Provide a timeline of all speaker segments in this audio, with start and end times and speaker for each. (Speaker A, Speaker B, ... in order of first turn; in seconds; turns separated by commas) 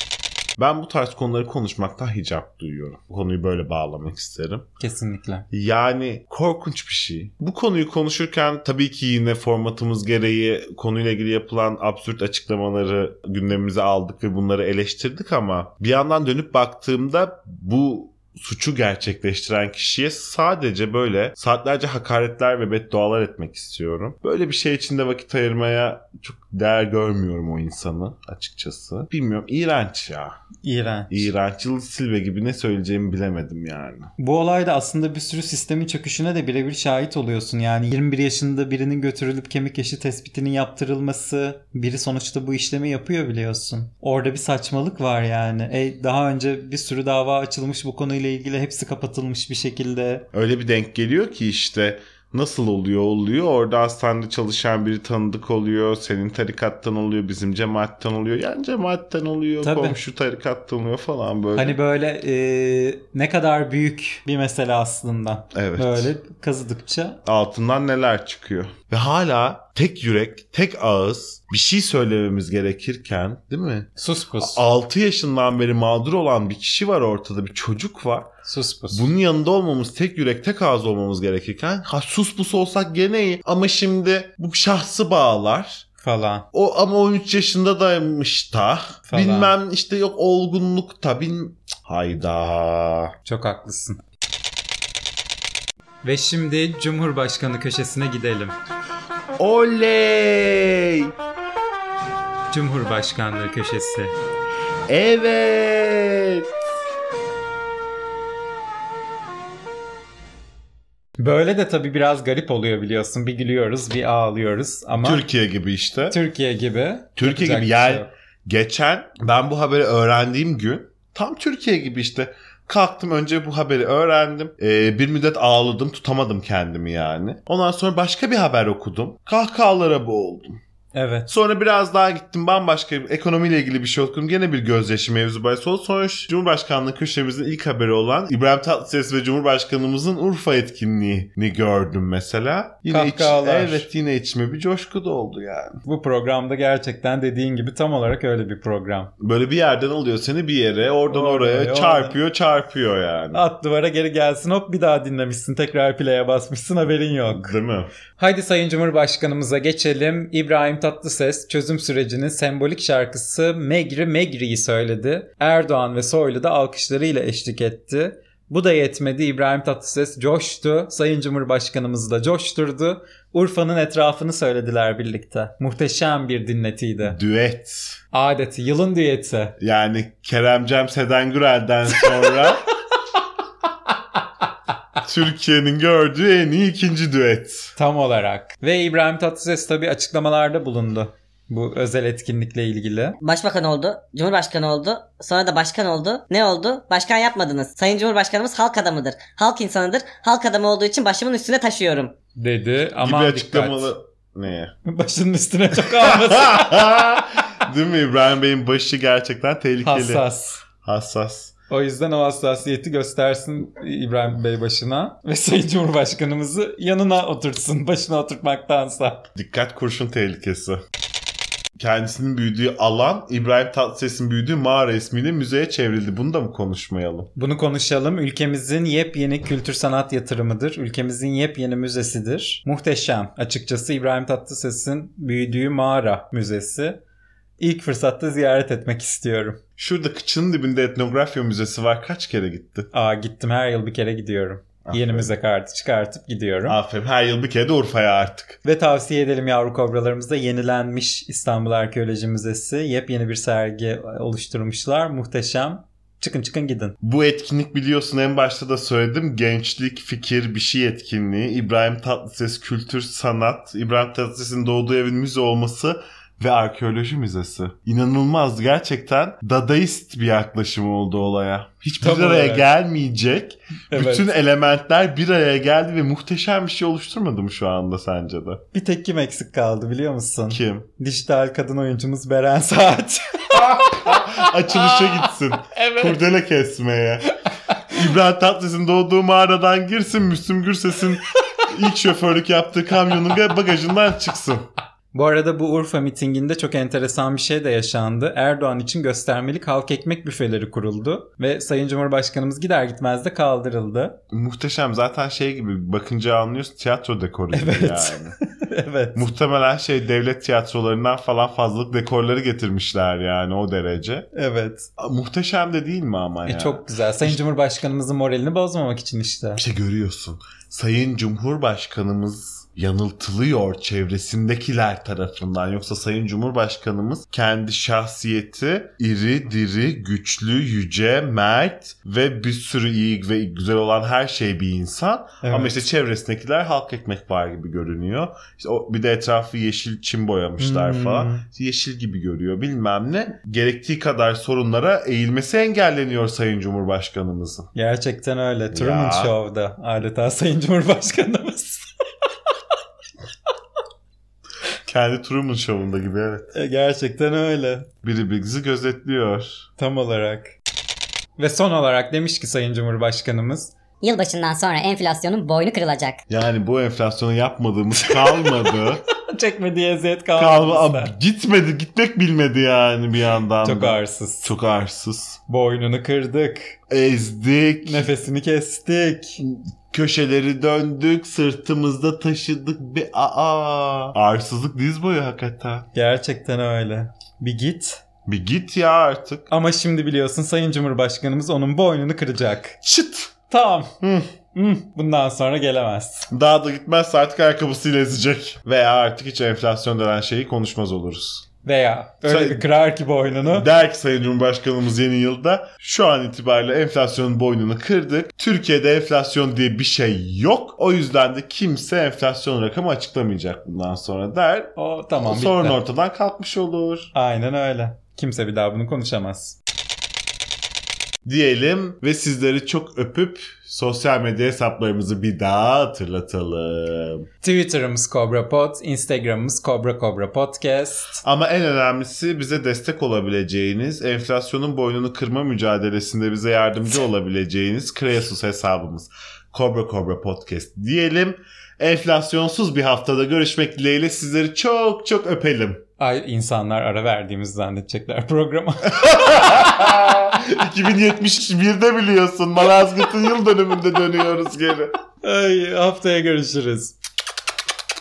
Speaker A: 0.6-4.7, Speaker B: 4.8-5.5, Speaker A: 5.5-30.4, Speaker B: 30.6-31.3, Speaker A: 31.1-34.1, Speaker B: 34.2-50.3, Speaker A: 50.3-61.8, Speaker B: 59.6-60.0, Speaker B: 61.6-67.2, Speaker A: 65.5-66.1, Speaker A: 67.2-78.3, Speaker B: 74.0-74.6, Speaker B: 78.5-79.1, Speaker A: 78.9-85.9, Speaker B: 86.0-86.5, Speaker A: 86.5-93.1, Speaker B: 89.1-89.5, Speaker B: 93.2-94.0, Speaker B: 96.0-98.5, Speaker A: 99.4-101.1, Speaker B: 102.5-104.1, Speaker A: 104.9-106.5, Speaker B: 111.2-115.2, Speaker A: 115.0-116.2, Speaker B: 116.1-118.1, Speaker A: 117.2-130.6, Speaker B: 130.9-131.3, Speaker A: 131.3-145.8, Speaker B: 142.9-143.9, Speaker B: 145.8-149.1, Speaker A: 149.2-153.4, Speaker B: 151.1-152.2, Speaker B: 153.3-157.5, Speaker A: 157.3-157.9, Speaker B: 158.2-177.2, Speaker A: 177.0-178.0, Speaker B: 178.1-179.6, Speaker A: 179.6-182.7, Speaker A: 185.0-187.7, Speaker B: 187.8-193.2, Speaker C: 193.2-202.1, Speaker B: 202.4-203.9, Speaker A: 203.0-204.7, Speaker B: 204.9-207.0, Speaker A: 206.0-210.2, Speaker B: 209.8-210.6, Speaker A: 210.8-211.5, Speaker B: 211.7-219.3, Speaker A: 219.3-220.8, Speaker A: 221.8-227.3, Speaker B: 227.4-237.0, Speaker B: 237.6-239.6, Speaker A: 239.8-242.9, Speaker B: 242.9-246.8, Speaker A: 244.8-245.3, Speaker A: 246.7-248.6, Speaker B: 248.6-257.0, Speaker A: 257.0-278.6, Speaker B: 272.0-272.7, Speaker B: 273.9-274.3, Speaker B: 278.7-286.2, Speaker A: 280.5-280.9, Speaker A: 283.5-287.4, Speaker A: 287.9-294.7, Speaker B: 295.1-304.2, Speaker A: 304.3-308.4, Speaker B: 307.5-309.2, Speaker A: 309.1-314.3, Speaker B: 314.3-314.9, Speaker A: 315.0-317.4, Speaker B: 316.5-319.6, Speaker A: 319.6-347.7, Speaker B: 335.4-335.8, Speaker B: 340.6-341.5, Speaker B: 347.8-351.9, Speaker A: 348.7-349.4, Speaker A: 354.9-356.5, Speaker B: 356.5-357.9, Speaker A: 358.0-359.7, Speaker B: 359.8-360.6, Speaker B: 361.4-363.7, Speaker D: 364.0-366.2, Speaker A: 366.3-369.0, Speaker B: 369.2-371.1, Speaker A: 370.4-375.4, Speaker B: 373.6-374.5, Speaker B: 375.5-376.8, Speaker A: 376.9-378.1, Speaker B: 377.9-379.4, Speaker A: 379.4-385.9, Speaker B: 385.9-388.0, Speaker A: 388.3-389.5, Speaker B: 389.5-393.9, Speaker A: 392.9-393.2, Speaker A: 394.0-394.3, Speaker B: 394.5-396.3, Speaker A: 396.3-401.5, Speaker B: 401.6-403.7, Speaker A: 402.2-402.6, Speaker A: 403.4-417.1, Speaker B: 414.8-415.8, Speaker B: 417.1-419.6, Speaker A: 421.2-427.3, Speaker B: 427.4-431.2, Speaker A: 431.2-445.8, Speaker B: 446.0-449.3, Speaker A: 448.9-454.9, Speaker B: 455.2-456.9